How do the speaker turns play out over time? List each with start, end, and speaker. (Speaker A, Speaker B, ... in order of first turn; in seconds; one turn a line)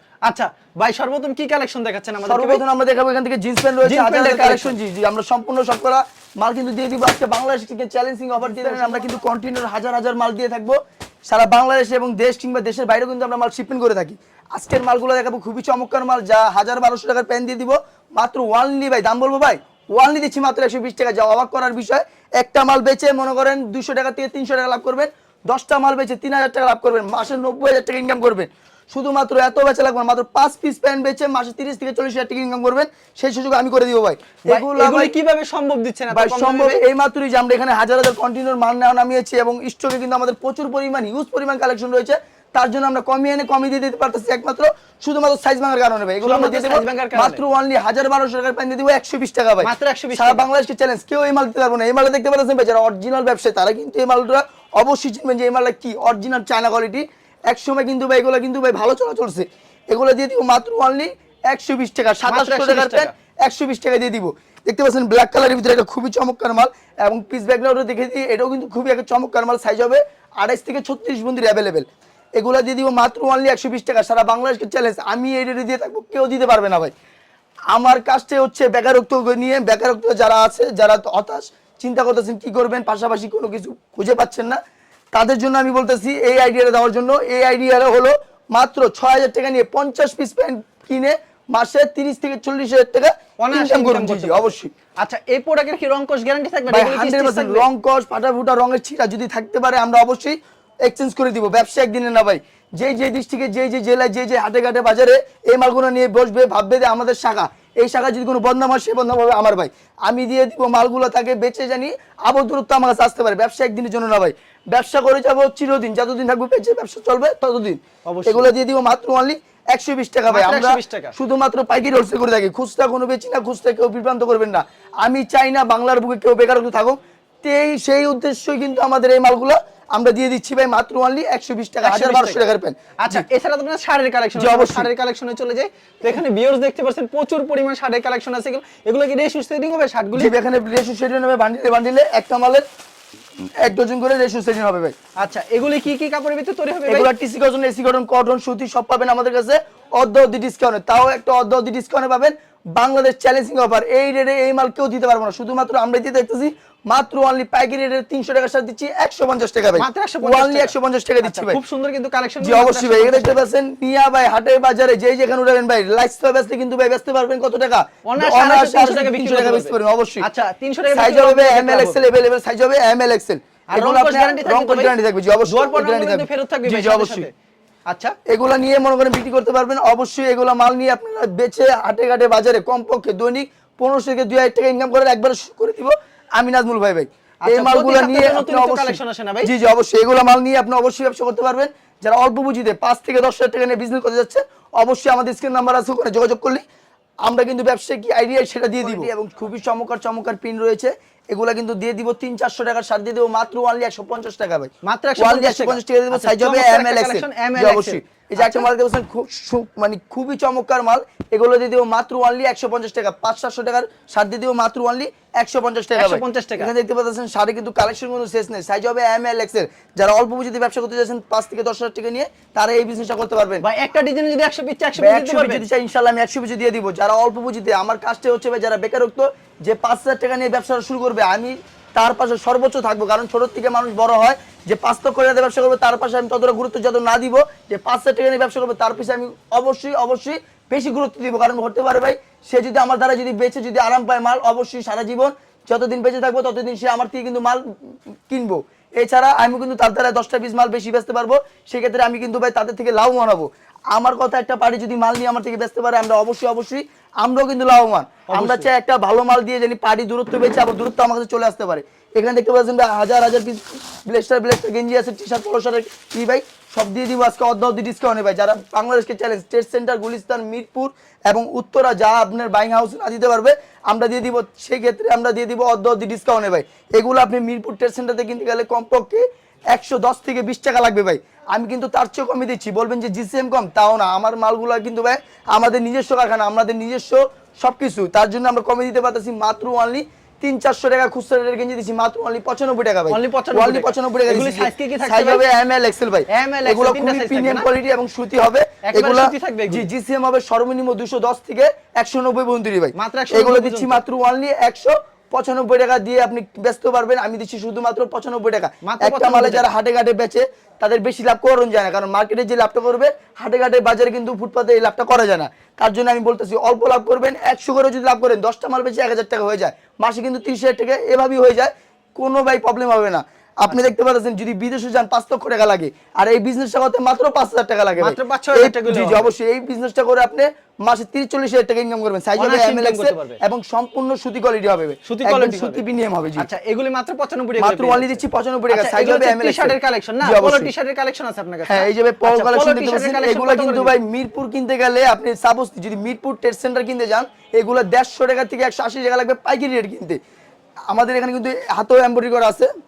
Speaker A: 0.2-2.6
Speaker B: 2.2-35.1
Speaker A: 3.8-4.8
Speaker A: 8.4-9.2
Speaker A: 34.4-36.8
Speaker B: 36.1-76.9
Speaker A: 46.2-47.4
Speaker A: 49.6-50.5
Speaker A: 62.3-63.1
Speaker B: 77.7-84.6
Speaker B: 85.1-94.7
Speaker A: 93.4-97.7
Speaker B: 96.7-133.2
Speaker A: 118.1-118.5
Speaker A: 120.2-121.1
Speaker A: 131.8-132.5
Speaker A: 133.0-140.3
Speaker B: 134.4-134.9
Speaker B: 140.1-142.6
Speaker B: 143.6-144.9
Speaker A: 145.2-147.1
Speaker B: 146.9-161.6
Speaker A: 159.7-163.4
Speaker B: 162.4-170.2
Speaker A: 168.1-172.0
Speaker B: 170.9-177.3
Speaker A: 173.7-174.9
Speaker A: 175.5-177.3
Speaker A: 177.9-178.1
Speaker B: 178.3-196.6
Speaker A: 187.4-189.5
Speaker B: 197.2-223.6
Speaker A: 198.8-199.1
Speaker A: 204.8-208.7
Speaker A: 215.9-216.7
Speaker A: 223.6-225.7
Speaker B: 225.0-336.5
Speaker A: 258.3-258.7
Speaker A: 293.1-295.5
Speaker A: 296.3-297.7
Speaker A: 298.8-299.9
Speaker A: 302.9-304.0
Speaker A: 308.8-309.7
Speaker A: 328.0-329.3
Speaker A: 332.4-333.4
Speaker A: 335.0-335.8
Speaker A: 336.4-343.9
Speaker B: 337.6-340.7
Speaker B: 341.7-350.2
Speaker B: 350.9-352.7